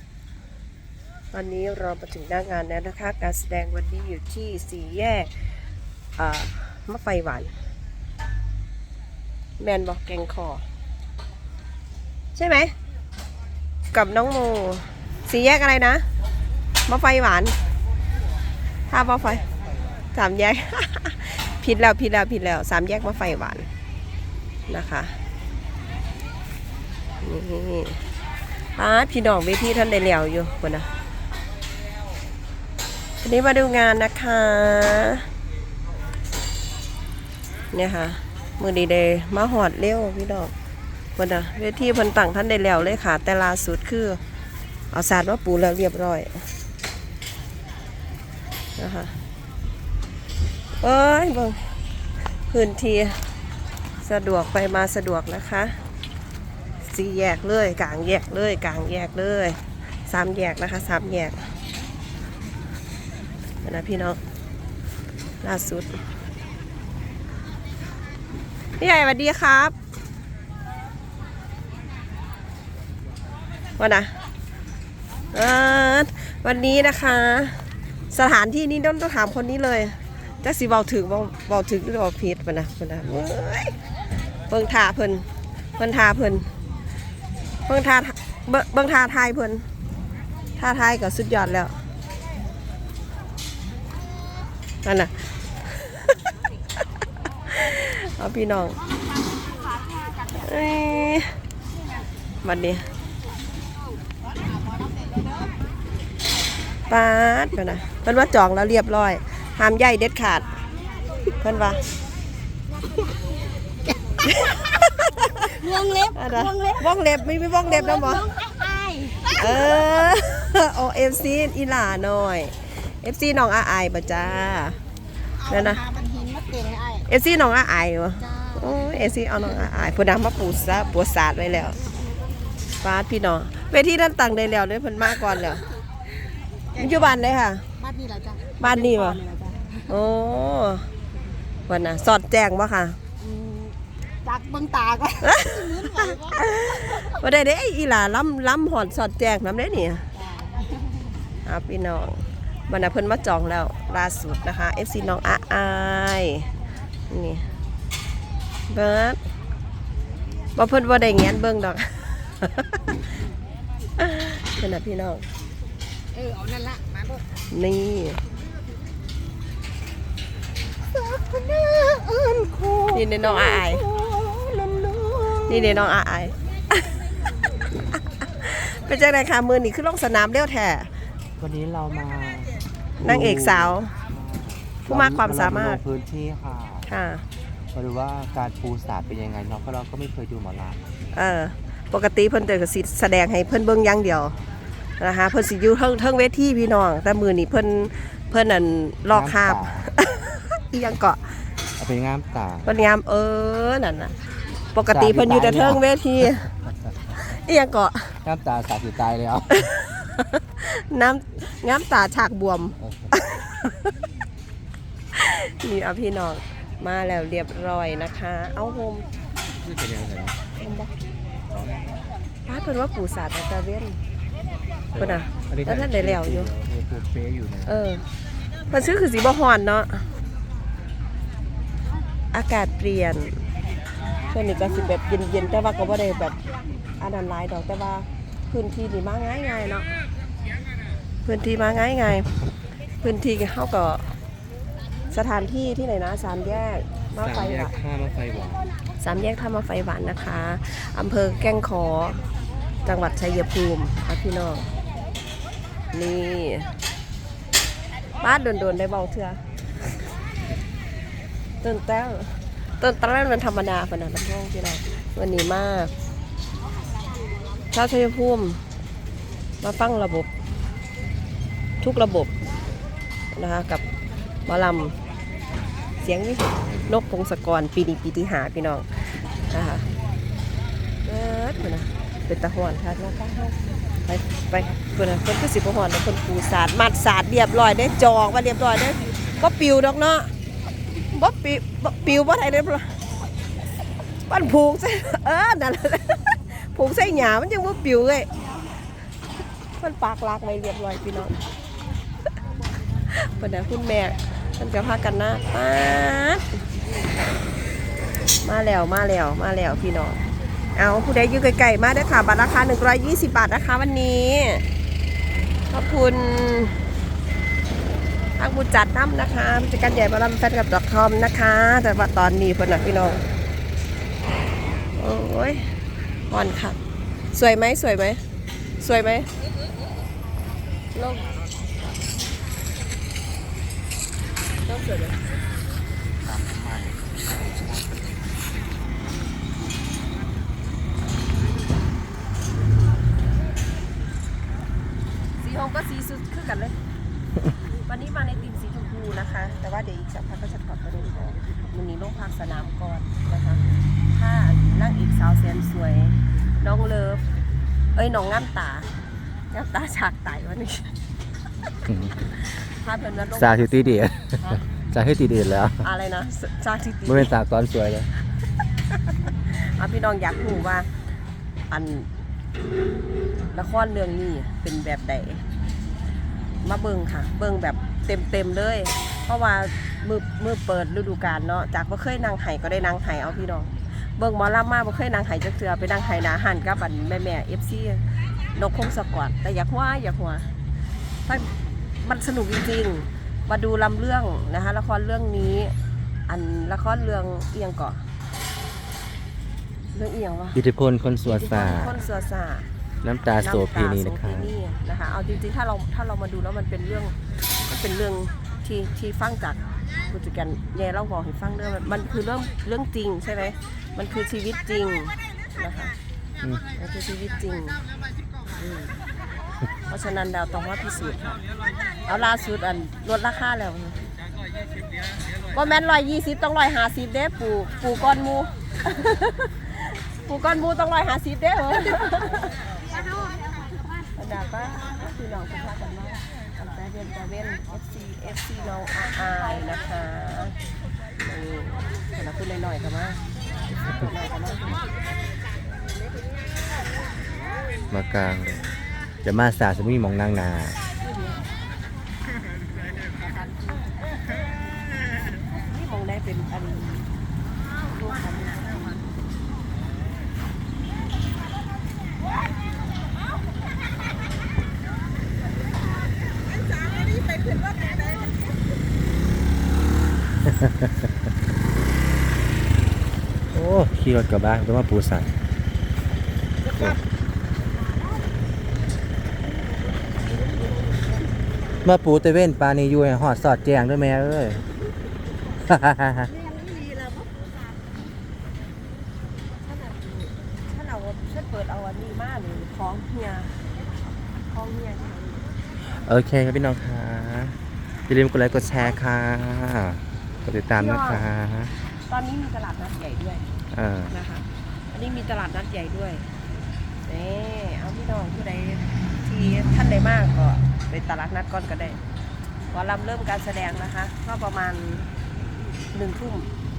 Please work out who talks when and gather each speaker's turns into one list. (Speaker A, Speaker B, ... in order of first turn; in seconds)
Speaker A: 1.3-5.5, 6.2-7.5, 9.6-10.6, 12.3-12.7, 13.9-16.0, 16.9-17.6, 18.9-19.4, 20.1-23.7, 24.7-25.1, 27.2-28.0, 28.7-30.9, 33.2-35.3, 37.7-40.5, 41.1-44.2, 44.9-46.4, 48.8-49.1, 50.8-51.7, 52.5-53.2, 54.0-55.8, 56.8-61.4, 63.6-64.2, 65.4-66.0, 68.8-69.7, 73.8-74.1, 75.3-83.8, 84.5-85.2, 85.8-86.5, 87.7-89.6, 90.6-91.8, 94.8-96.2, 97.5-98.8, 100.3-101.3, 102.4-102.8, 106.9-110.5, 111.4-111.8, 114.2-115.5, 116.1-118.3, 119.4-124.8, 125.5-125.8, 127.1-131.8, 132.8-135.6, 136.7-137.6, 138.6-139.2, 139.9-140.9, 141.7-143.0, 145.2-150.0, 151.4-156.5, 157.1-157.5, 158.7-159.2, 160.6-162.9, 164.0-165.2, 167.5-168.2, 172.9-173.8, 175.5-176.8, 178.2-180.9, 183.0-183.9, 184.8-185.8, 186.8-187.2, 191.1-194.3, 195.0-201.5, 202.6-204.1, 204.7-206.5, 207.1-208.2, 209.5-213.9, 215.1-219.1, 220.6-220.9, 222.4-224.0, 224.9-226.5, 227.6-228.0, 228.7-230.1, 232.3-233.4, 234.3-236.4, 237.0-239.9, 241.2-242.3, 243.0-244.1, 245.1-247.8, 249.0-252.2, 252.8-254.7, 255.9-256.7, 258.2-259.4, 261.6-265.9, 267.7-268.6, 269.6-270.3, 271.8-272.3, 273.3-273.8, 274.5-275.0, 276.0-279.9, 281.0-290.3, 291.0-293.0, 294.3-298.3, 299.8-301.4, 303.1-306.6, 308.4-310.2, 310.7-314.6, 315.7-316.8, 318.4-323.2, 324.9-325.7, 326.3-326.8, 327.3-328.2, 328.8-329.3, 330.9-331.3, 334.6-335.2, 345.4-346.8, 347.9-357.2, 357.9-358.9, 359.5-360.9, 362.3-364.6, 365.8-367.3, 369.4-370.9, 371.7-372.1, 373.5-375.4, 376.6-390.5, 391.2-391.5, 392.0-395.7, 396.3-398.0, 399.9-400.6, 401.2-402.7, 403.4-415.9, 416.8-417.8, 418.6-418.9, 419.9-421.4, 422.1-424.0, 425.5-432.6, 434.1-440.6, 441.2-444.8, 451.0-451.5, 452.8-454.0, 455.5-457.1, 457.8-459.1, 486.8-487.0, 489.6-493.5, 494.5-495.5, 500.8-501.2, 502.1-503.5, 504.1-506.3, 507.1-512.0, 512.7-515.1, 515.9-516.5
Speaker B: 99.7-100.1, 105.0-105.5, 115.4-116.9, 117.6-119.9, 125.4-127.1, 128.2-129.0, 136.7-137.1, 137.8-139.9, 143.2-147.2, 150.2-150.9, 166.1-167.2, 170.9-175.9, 432.8-434.0, 467.2-468.2
Speaker C: 181.4-186.9, 187.7-190.9, 199.1-199.9, 201.8-202.7, 204.9-205.8, 208.2-209.7, 212.8-213.1, 219.6-220.4, 221.5-222.1, 224.9-227.7, 247.2-248.7, 336.2-338.1, 361.9-362.2, 363.4-365.9, 367.1-368.1, 400.5-401.9, 403.0-404.5, 447.9-448.6, 449.2-450.8, 470.5-470.9, 473.5-475.4, 476.7-477.0, 481.8-484.6, 485.6-486.3, 495.8-501.7, 503.7-504.1